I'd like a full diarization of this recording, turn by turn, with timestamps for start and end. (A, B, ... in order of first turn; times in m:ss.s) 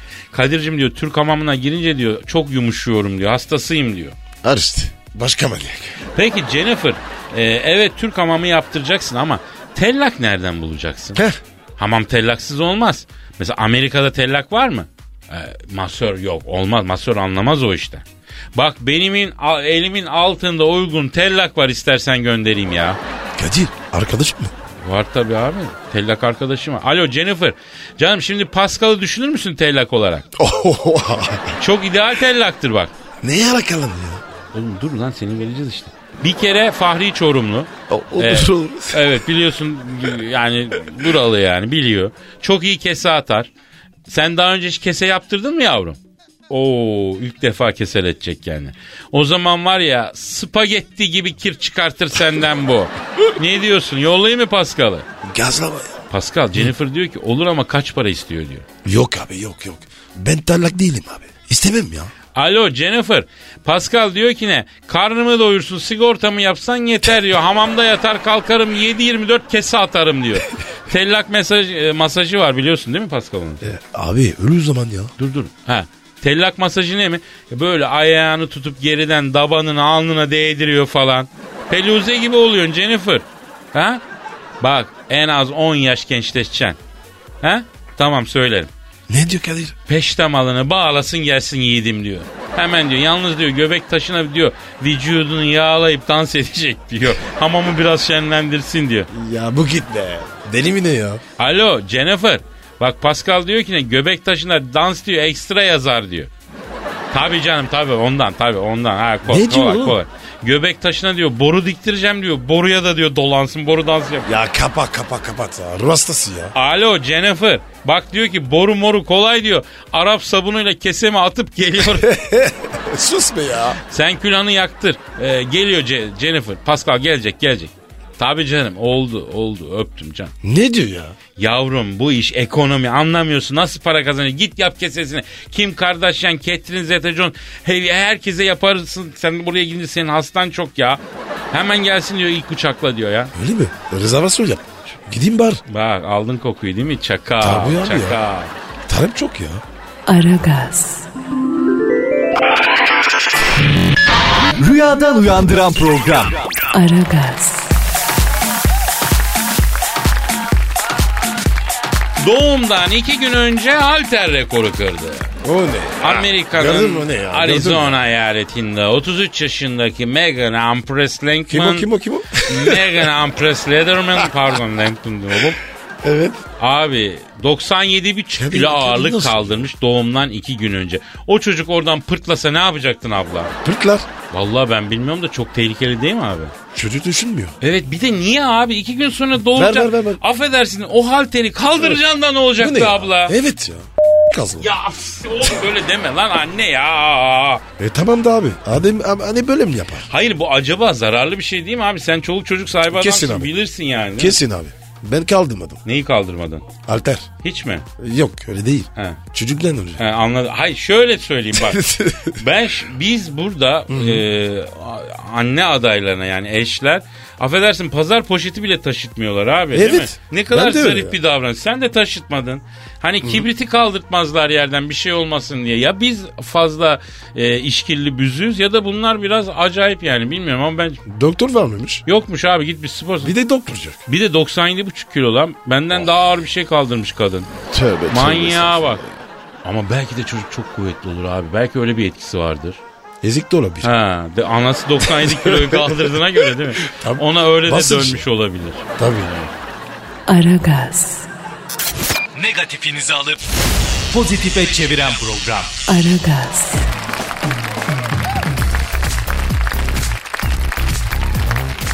0:00.3-0:04.2 A
0:04.4-0:06.0 B
0:06.1-0:11.2 A
0:11.8-0:18.0 A
0:18.6-0:23.0 A
0:23.4-0:24.5 B
0:24.8-0:30.3 A
0:30.4-0:31.6 B
0:31.6-0:32.9 A
0:33.2-0:34.2 B
0:34.5-0:43.5 A
0:37.9-0:39.1 B
0:44.1-0:46.0 A
0:46.5-0:55.1 A
0:55.2-0:56.0 B
0:56.1-0:58.6 A
0:58.8-1:02.1 B
1:02.4-1:13.7 A
1:13.6-1:15.1 B
1:15.2-1:24.0 A
1:24.6-1:26.8 A
1:27.4-1:28.7 A
1:29.1-1:29.8 B
1:29.9-1:39.1 A
1:39.1-1:41.2 B
1:41.4-1:46.3 A
1:47.1-1:54.3 A
1:49.3-1:50.0 B
1:54.3-1:56.5 B
1:56.5-2:02.1 A
2:01.9-2:03.8 B
2:03.9-2:10.3 A
2:10.4-2:11.2 B
2:11.4-2:21.0 A
2:21.5-2:23.3 A
2:23.3-2:25.6 B
2:25.7-2:28.5 A
2:27.4-2:28.2 B
2:28.9-2:29.6 B
2:30.1-2:31.1 C
2:34.6-2:36.4 D
2:36.7-2:37.8 C
2:42.2-2:45.3 A
2:45.4-2:48.0 B
2:46.0-2:51.9 A
2:51.5-2:53.1 B
2:52.5-2:55.6 A
2:56.0-2:56.4 B
2:56.6-3:03.5 A
2:58.4-2:59.7 B
3:03.6-3:04.1 B
3:04.3-3:06.5 A
3:06.7-3:07.6 B
3:07.6-3:13.4 A
3:09.5-3:10.2 B
3:12.6-3:14.7 B
3:14.6-3:17.6 A
3:17.8-3:20.1 B
3:20.1-3:24.4 A
3:22.9-3:23.5 B
3:24.2-3:25.8 B
3:25.8-3:26.7 A
3:26.8-3:27.3 B
3:27.4-3:27.9 A
3:28.0-3:30.0 B
3:30.0-3:51.0 A
3:31.6-3:32.4 B
3:33.9-3:34.2 B
3:39.7-3:41.2 B
3:51.1-3:52.0 B
3:52.1-3:53.4 A
3:53.2-3:54.0 B
3:54.1-3:57.5 A
3:57.7-3:59.2 B
3:58.1-3:59.0 A
3:59.6-4:02.8 A
4:03.2-4:03.9 B
4:03.8-4:09.5 A
4:05.1-4:06.2 B
4:06.8-4:08.2 B
4:09.0-4:09.4 B
4:10.3-4:11.3 C
4:12.4-4:13.4 D
4:14.1-4:15.8 D
4:15.9-4:16.9 C